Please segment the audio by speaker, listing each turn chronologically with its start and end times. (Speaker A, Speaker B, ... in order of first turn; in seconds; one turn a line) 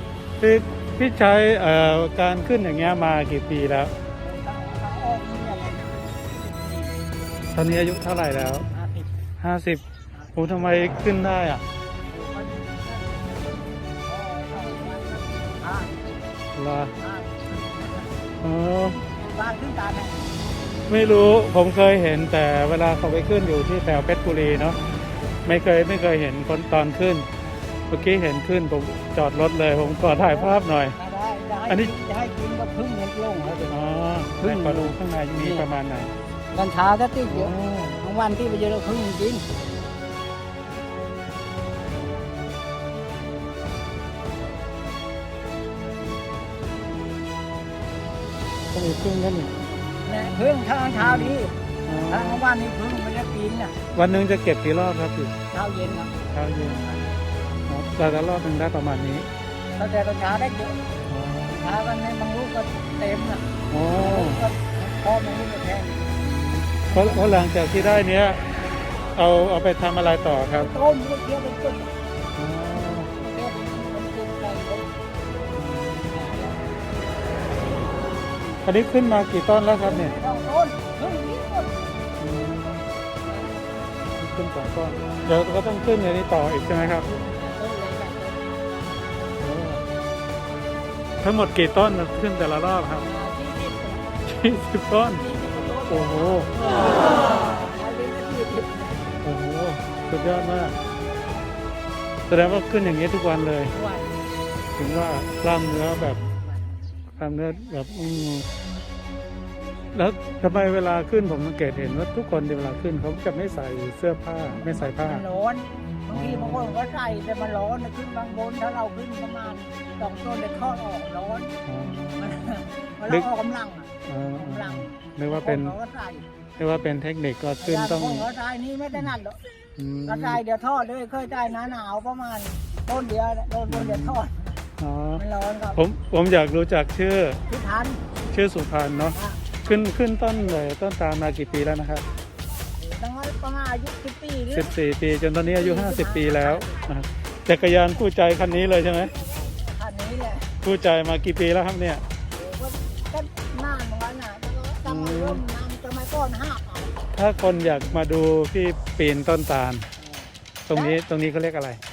Speaker A: 0.4-3.9
Speaker B: 4.1-7.0
Speaker A: 7.5-8.7
Speaker B: 8.7-9.1
Speaker A: 9.4-9.8
Speaker A: 10.3-11.6
Speaker B: 12.1-16.1
Speaker A: 16.5-16.9
Speaker B: 16.9-18.2
Speaker A: 18.4-19.0
Speaker B: 19.1-20.3
Speaker A: 20.9-24.8
Speaker A: 25.4-27.3
Speaker A: 27.9-30.9
Speaker B: 30.1-35.6
Speaker A: 33.7-36.1
Speaker B: 36.5-39.5
Speaker A: 37.3-38.0
Speaker A: 48.7-49.6
Speaker B: 50.0-51.5
Speaker A: 50.9-51.4
Speaker A: 51.9-52.4
Speaker B: 52.1-53.8
Speaker A: 53.9-55.3
Speaker B: 55.5-56.3
Speaker A: 56.3-56.9
Speaker A: 57.7-59.3
Speaker B: 59.8-60.8
Speaker A: 61.1-61.7
Speaker B: 61.5-66.1
Speaker A: 63.7-64.5
Speaker A: 66.2-68.4
Speaker B: 66.8-67.3
Speaker A: 69.1-70.7
Speaker B: 70.5-71.9
Speaker A: 72.3-73.1
Speaker B: 73.0-74.9
Speaker A: 75.5-76.1
Speaker B: 76.1-76.6
Speaker A: 78.6-80.2
Speaker B: 79.7-82.0
Speaker A: 82.2-82.8
Speaker A: 84.2-87.1
Speaker B: 87.0-89.3
Speaker A: 89.4-89.8
Speaker A: 91.2-93.1
Speaker B: 93.0-94.2
Speaker A: 94.2-95.2
Speaker B: 95.1-99.1
Speaker A: 95.9-96.5
Speaker A: 99.2-100.8
Speaker A: 102.3-103.7
Speaker B: 103.7-104.2
Speaker A: 104.8-106.2
Speaker A: 107.2-108.5
Speaker A: 109.9-115.2
Speaker B: 114.5-121.5
Speaker A: 116.1-116.8
Speaker A: 121.7-122.5
Speaker B: 122.2-126.2
Speaker A: 124.0-125.7
Speaker A: 126.6-128.3
Speaker B: 127.6-129.4
Speaker A: 129.8-130.4
Speaker B: 130.1-134.6
Speaker A: 133.7-134.2
Speaker A: 134.8-135.2
Speaker B: 135.2-135.8
Speaker A: 135.7-137.4
Speaker B: 137.5-138.0
Speaker A: 138.2-142.1
Speaker B: 139.1-139.4
Speaker B: 142.8-144.7
Speaker A: 144.5-149.1
Speaker B: 145.4-146.7
Speaker B: 149.4-150.5
Speaker A: 150.6-152.0
Speaker B: 152.3-157.0
Speaker A: 154.8-155.4
Speaker A: 157.1-159.9
Speaker B: 160.0-161.0
Speaker A: 160.7-161.8